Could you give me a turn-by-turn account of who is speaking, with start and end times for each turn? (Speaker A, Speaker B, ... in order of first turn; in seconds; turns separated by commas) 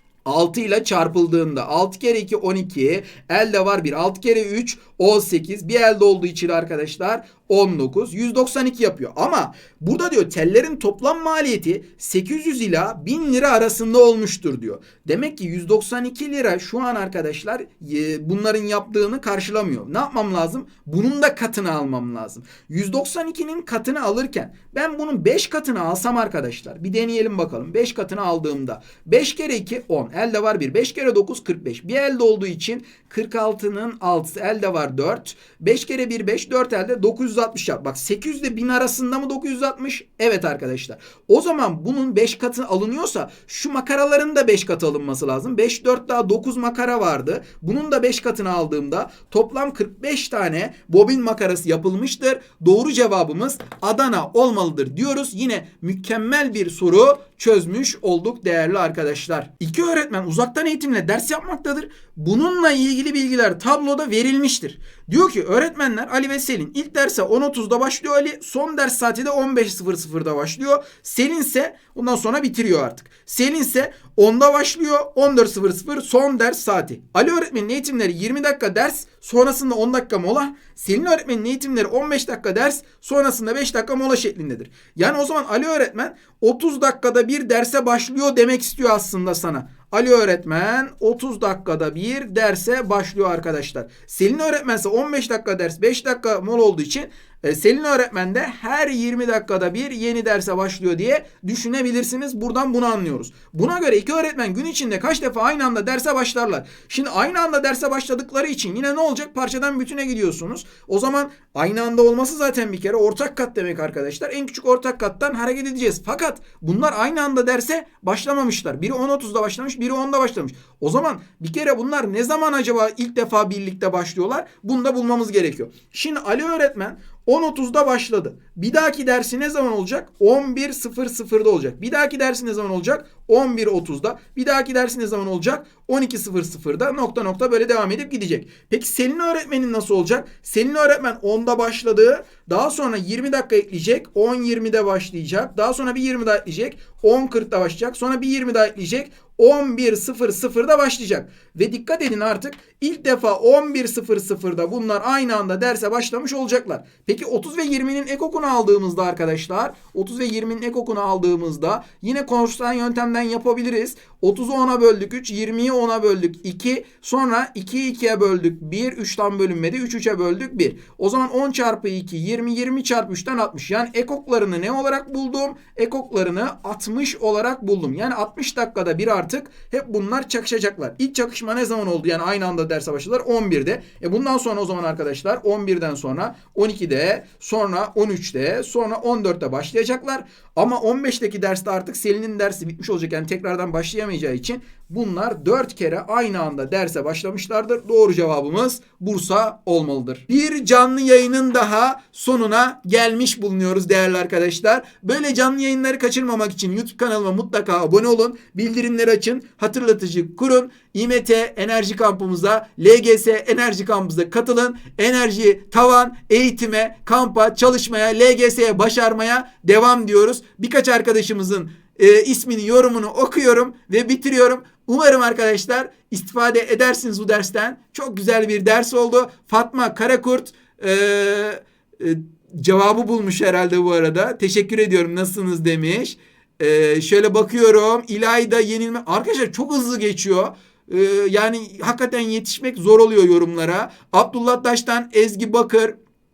Speaker A: 0.2-245.9